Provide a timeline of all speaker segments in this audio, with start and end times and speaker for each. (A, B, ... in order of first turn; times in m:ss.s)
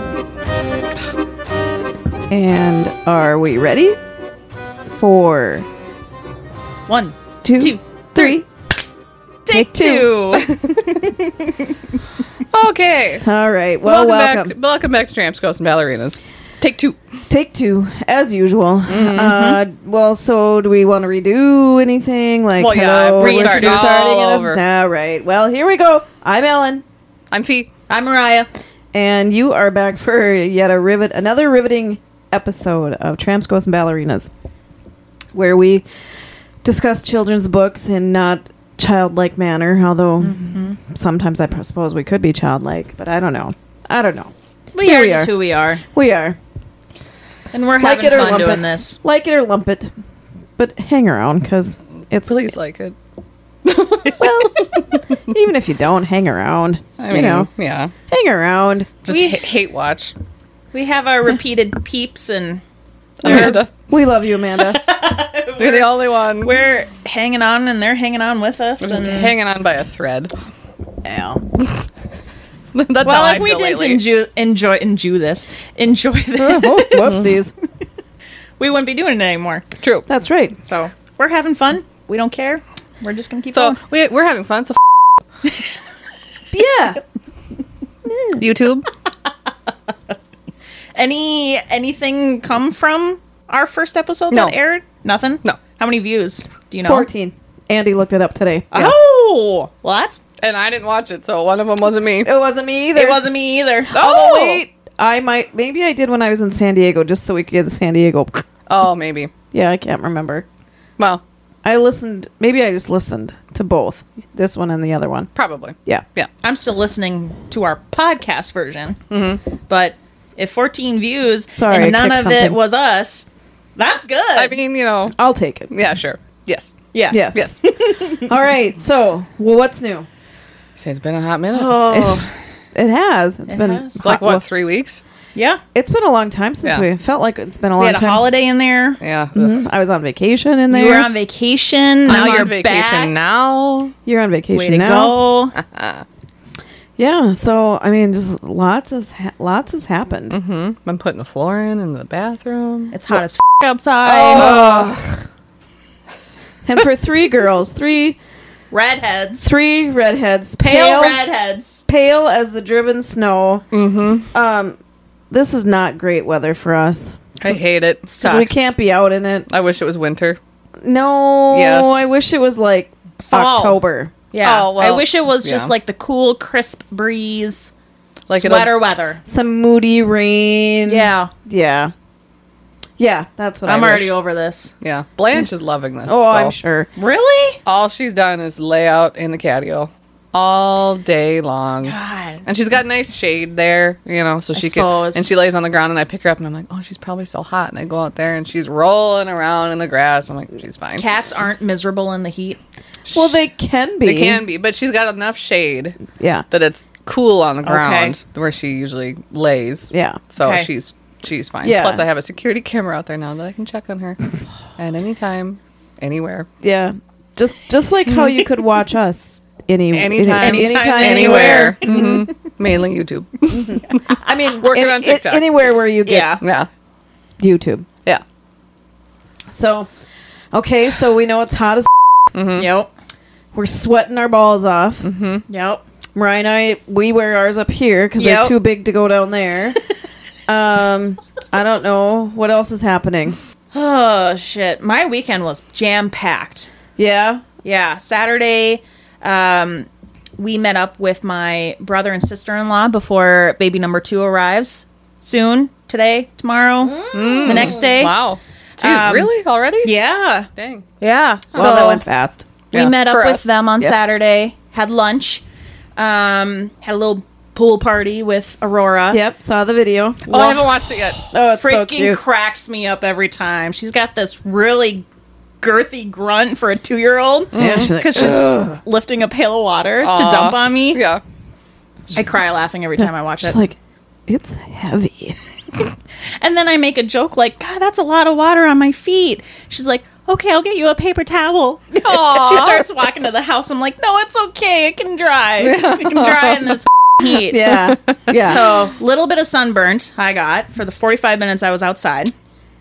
0:02.3-0:04.0 A
0:04.9-0:05.7 A
0:06.9-0:08.4 B
0:07.4-0:08.5 A
0:09.4-0:11.7 B
0:09.5-0:10.2 A
0:10.4-0:10.9 C
0:12.5-0:13.2 C
0:13.2-0:14.5 A
0:13.8-0:17.0 C
0:17.3-0:26.8 A
0:18.9-0:19.4 C
0:19.3-0:19.6 B
0:22.6-0:24.6 C
0:23.2-0:24.1 B
0:27.3-0:27.7 C
0:27.9-0:28.5 B
0:28.9-0:34.3 A
0:35.3-0:35.8 A
0:36.6-0:45.3 A
0:40.2-0:40.8 B
0:44.7-0:45.8 B
0:45.9-0:46.4 A
0:47.5-0:49.0 B
0:47.8-0:49.9 A
0:50.6-0:52.5 A
0:52.2-0:53.0 C
0:53.6-0:54.2 C
0:54.2-0:57.5 A
0:57.0-0:57.9 C
0:58.1-0:58.9 A
0:59.0-1:00.2 C
0:59.1-0:59.4 B
1:00.7-1:02.6 B
1:03.2-1:03.7 C
1:03.2-1:04.9 A
1:03.2-1:03.5 B
1:04.7-1:09.3 B
1:05.6-1:06.5 C
1:08.8-1:10.3 C
1:11.0-1:11.4 A
1:12.7-1:14.0 C
1:13.0-1:17.4 B
1:16.4-1:17.5 A
1:17.0-1:17.3 C
1:18.6-1:19.6 B
1:19.8-1:20.1 C
1:20.1-1:20.6 A
1:20.6-1:23.8 B
1:23.5-1:24.8 C
1:26.5-1:27.0 A
1:28.4-1:28.9 C
1:30.9-1:37.1 B
1:34.3-1:34.6 C
1:36.8-1:38.8 A
1:38.7-1:40.2 B
1:40.4-1:42.3 C
1:42.2-1:43.2 A
1:42.9-1:44.0 B
1:43.9-1:48.4 A
1:43.9-1:44.6 C
1:48.7-1:49.3 C
1:49.5-1:50.4 A
1:51.0-1:51.2 C
1:51.6-1:55.3 A
1:55.4-1:56.3 C
1:56.4-1:59.0 B
1:59.1-1:59.4 C
1:59.7-2:04.5 B
2:01.6-2:02.6 A
2:04.3-2:05.2 C
2:05.1-2:05.7 A
2:05.7-2:06.8 C
2:06.9-2:08.3 B
2:07.1-2:07.5 A
2:07.3-2:07.6 C
2:08.2-2:10.1 A
2:10.8-2:12.0 C
2:11.5-2:12.3 B
2:11.9-2:12.2 A
2:12.7-2:14.4 A
2:13.5-2:14.1 B
2:14.0-2:15.0 C
2:15.3-2:15.6 B
2:15.7-2:18.3 A
2:17.8-2:19.0 B
2:19.0-2:19.6 C
2:19.3-2:21.1 A
2:20.7-2:23.1 B
2:22.0-2:23.9 C
2:24.0-2:25.2 A
2:24.5-2:25.5 B
2:25.5-2:26.0 C
2:27.0-2:30.4 A
2:30.3-2:32.9 C
2:32.9-2:34.8 B
2:34.0-2:35.2 A
2:34.3-2:34.9 C
2:36.6-2:38.2 A
2:38.7-2:39.4 B
2:39.4-2:41.2 A
2:40.6-2:41.8 B
2:41.8-2:43.6 A
2:43.7-2:44.3 C
2:44.3-2:44.8 A
2:45.3-2:47.2 A
2:47.4-2:48.0 C
2:48.0-2:48.7 B
2:48.2-2:49.5 A
2:49.5-2:50.4 C
2:50.8-2:54.1 A
2:51.5-2:52.0 C
2:53.2-2:53.8 B
2:54.3-2:57.7 B
2:54.4-2:55.7 C
2:58.3-2:59.2 B
2:58.3-2:58.7 C
2:59.2-3:01.9 A
3:00.8-3:01.3 B
3:03.0-3:04.1 A
3:03.6-3:04.7 B
3:04.8-3:06.5 C
3:06.1-3:06.9 A
3:07.0-3:07.6 B
3:07.6-3:21.0 C
3:11.8-3:12.4 B
3:14.5-3:15.3 B
3:21.0-3:22.6 B
3:23.1-3:24.4 A
3:24.0-3:26.0 C
3:26.1-3:26.4 A
3:26.5-3:34.2 C
3:27.6-3:28.1 B
3:29.9-3:30.2 A
3:30.4-3:30.7 B
3:31.6-3:32.0 A
3:34.8-3:36.5 C
3:36.6-3:42.2 A
3:39.9-3:45.5 C
3:40.4-3:42.3 B
3:43.5-3:46.4 A
3:46.0-3:46.4 B
3:46.4-3:46.7 C
3:47.4-3:47.9 A
3:49.5-3:49.9 A
3:50.5-3:51.9 A
3:52.3-3:52.7 C
3:52.5-3:52.9 B
3:53.5-3:55.1 A
3:55.0-3:55.4 C
3:55.5-3:55.8 B
3:56.1-3:59.8 A
3:58.2-3:58.5 B
4:00.5-4:03.4 A
4:03.7-4:06.7 B
4:07.0-4:07.4 A
4:07.6-4:09.9 B
4:10.4-4:18.1 B
4:16.8-4:17.8 A
4:17.1-4:19.9 C
4:18.8-4:19.3 B
4:19.8-4:20.5 B
4:20.6-4:20.8 C
4:21.0-4:22.0 B
4:21.5-4:22.4 A
4:22.7-4:23.5 C
4:22.7-4:25.4 B
4:26.0-4:29.2 B
4:29.1-4:30.3 A
4:30.3-4:31.2 C
4:30.3-4:30.7 B
4:31.3-4:32.2 A
4:31.4-4:35.0 B
4:35.6-4:41.0 B
4:37.5-4:38.3 C
4:37.6-4:38.8 A
4:40.0-4:41.2 C
4:42.1-4:43.6 B
4:43.0-4:43.8 A
4:44.3-4:45.4 A
4:46.4-4:57.8 B
4:52.0-4:52.8 C
4:55.6-4:56.8 C
4:57.3-4:58.6 C
4:57.5-4:58.6 A
4:58.5-5:02.3 B